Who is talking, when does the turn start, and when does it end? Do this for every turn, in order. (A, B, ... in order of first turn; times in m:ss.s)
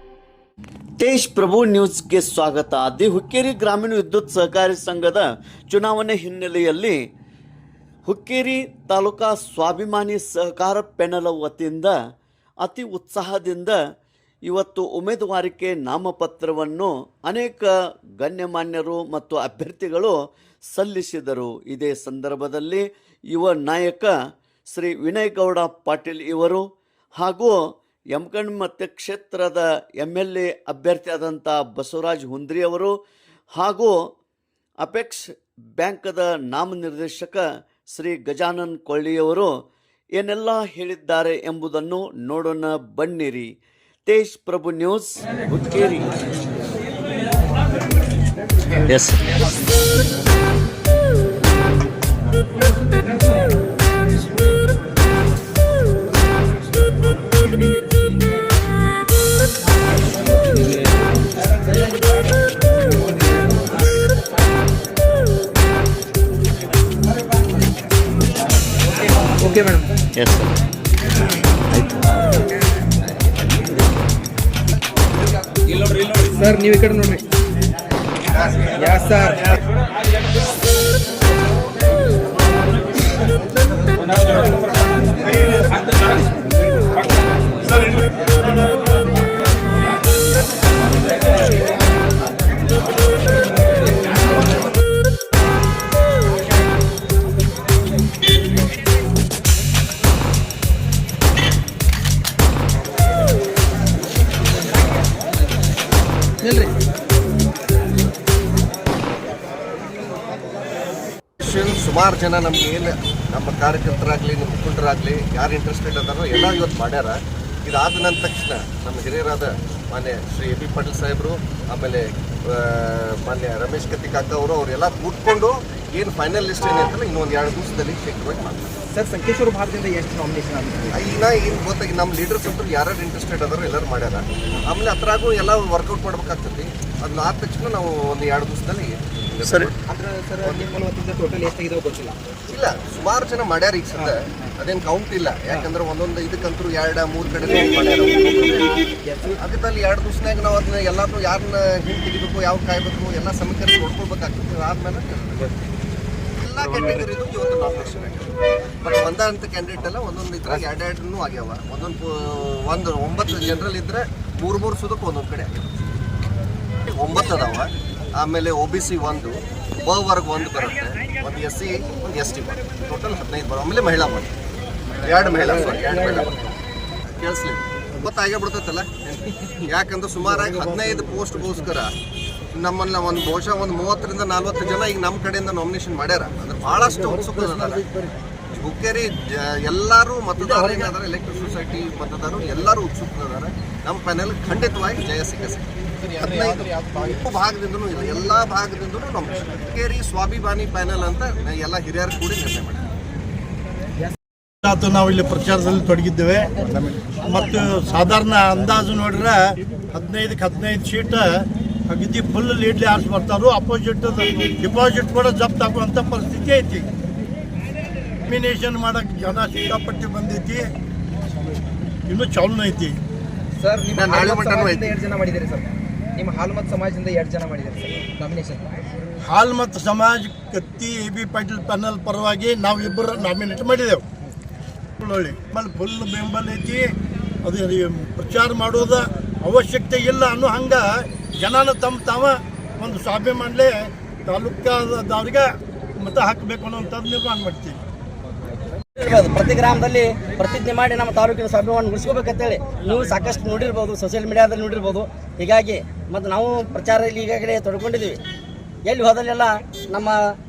0:01.0-0:07.0 A
0:08.0-0:12.0 A
0:12.6-0:13.8 A
0:14.5-0:20.2 A
0:20.7-0:24.1 A
0:24.7-0:26.6 A
0:27.2-0:27.6 A
0:28.1-0:33.0 A
0:33.6-0:34.0 A
0:34.8-0:39.5 A
0:40.2-0:43.5 A
0:44.0-0:46.1 A
0:48.9-0:49.2 A
1:09.4-1:09.9 B
1:10.2-1:10.5 A
1:11.7-1:12.4 A
1:16.1-1:17.2 B
1:18.4-1:18.7 C
1:18.7-1:19.5 B
1:46.4-1:46.7 B
1:51.4-2:08.7 C
2:08.9-2:11.0 B
2:10.9-2:19.8 C
2:19.4-2:19.7 A
2:19.9-2:22.2 B
2:20.4-2:20.7 C
2:22.5-2:28.8 C
2:27.4-2:27.7 B
2:29.0-2:29.4 B
2:29.4-2:35.5 C
2:36.4-2:45.6 C
2:46.8-2:54.3 C
2:55.0-2:56.4 C
2:55.4-2:56.5 B
2:57.2-2:58.9 C
2:59.6-3:01.9 C
3:02.6-3:07.8 C
3:08.5-3:22.8 C
3:16.2-3:16.5 B
3:24.6-3:36.9 D
3:38.3-3:40.6 D
3:42.1-3:43.0 D
3:43.6-3:48.6 B
3:44.0-3:45.0 C
3:49.2-3:54.0 D
3:55.0-3:56.9 D
3:57.4-4:07.8 D
4:09.0-4:18.2 E
4:18.9-4:20.2 E